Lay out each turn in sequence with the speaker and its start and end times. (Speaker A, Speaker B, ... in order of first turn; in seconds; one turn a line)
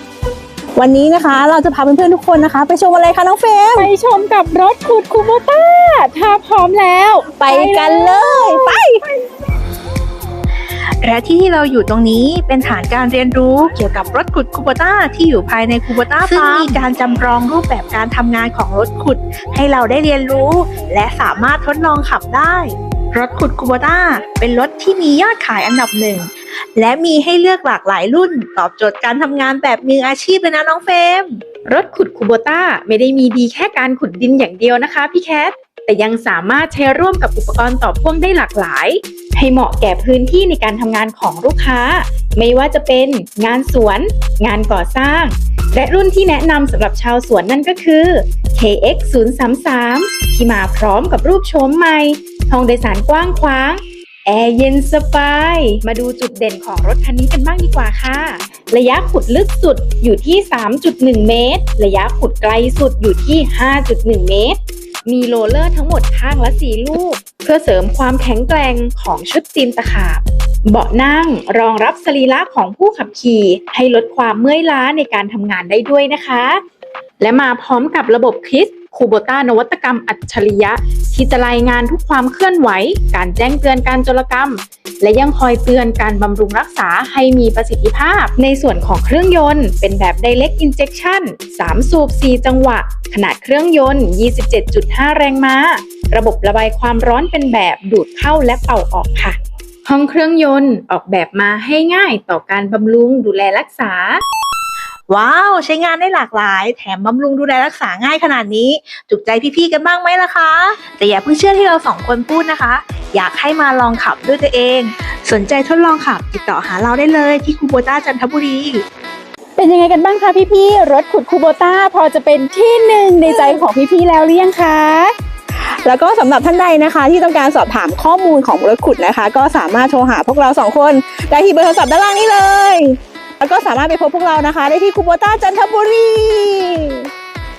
Speaker A: 0.8-3.9
Speaker B: 3.8-9.1
Speaker A: 7.4-9.0
Speaker C: 11.0-31.4
Speaker A: 16.2-16.9
Speaker B: 31.7-76.6
Speaker B: 77.2-104.2
Speaker C: 105.1-118.8
Speaker B: 119.6-125.1
Speaker A: 123.3-123.6
Speaker A: 125.6-137.1